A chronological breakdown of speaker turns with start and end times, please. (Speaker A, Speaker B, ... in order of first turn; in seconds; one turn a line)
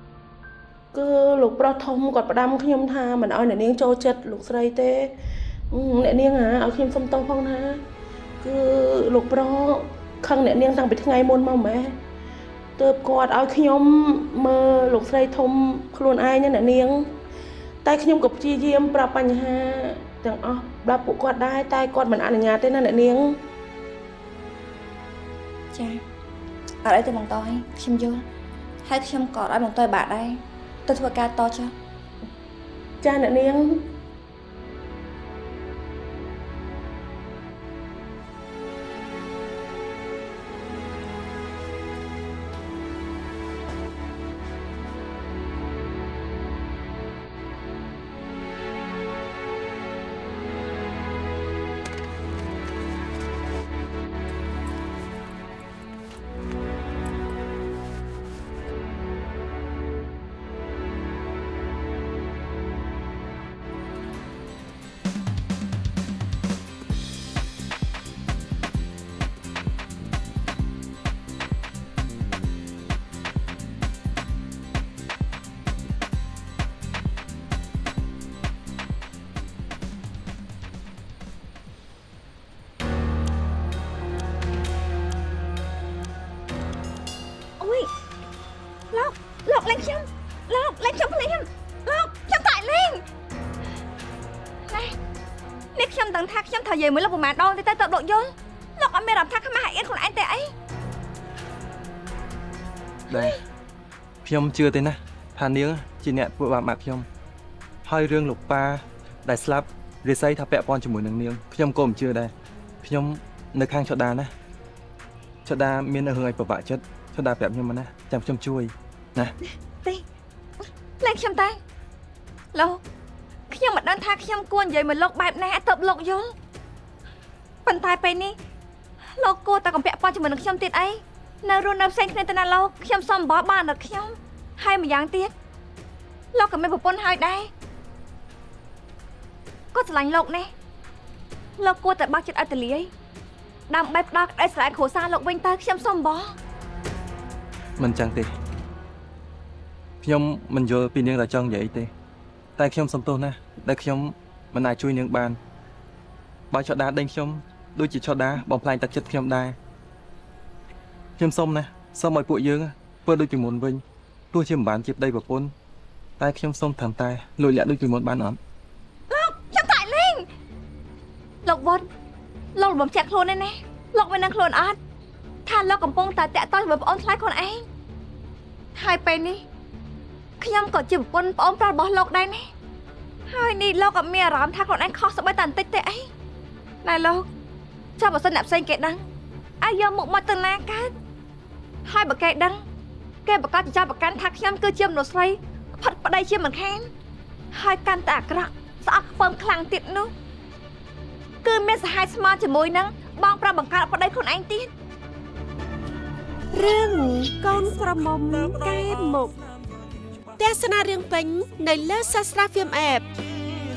Speaker A: 0.9-5.1
Speaker A: 5.7-7.8
Speaker A: 8.4-11.9
Speaker A: 12.8-17.1
Speaker A: 17.8-23.4
Speaker B: 25.7-26.0
Speaker B: 26.8-28.2
Speaker B: 28.8-31.7
Speaker A: 33.0-33.8
Speaker B: 87.6-87.9
Speaker B: 88.9-93.0
Speaker B: 94.7-95.0
Speaker B: 95.7-100.5
Speaker C: 103.1-103.4
Speaker C: 104.2-107.1
Speaker C: 107.8-114.3
Speaker C: 115.4-119.3
Speaker B: 121.0-121.6
Speaker B: 122.5-122.8
Speaker B: 123.5-126.3
Speaker B: 127.6-128.3
Speaker B: 129.2-135.3
Speaker B: 136.3-137.5
Speaker B: 139.7-140.5
Speaker B: 141.6-142.9
Speaker B: 143.7-146.3
Speaker C: 147.8-148.3
Speaker C: 150.0-151.9
Speaker C: 152.6-155.4
Speaker C: 156.5-159.6
Speaker C: 161.2-165.5
Speaker C: 166.2-168.4
Speaker B: 169.1-170.3
Speaker B: 171.4-171.8
Speaker B: 172.5-174.8
Speaker B: 175.4-177.7
Speaker B: 178.7-179.4
Speaker B: 180.4-182.5
Speaker B: 183.3-186.1
Speaker B: 186.8-187.3
Speaker B: 188.0-189.0
Speaker B: 189.6-190.9
Speaker B: 191.8-192.6
Speaker B: 193.2-196.9
Speaker B: 197.5-200.1
Speaker B: 201.4-204.7
Speaker D: 206.5-209.3
Speaker D: 210.4-213.0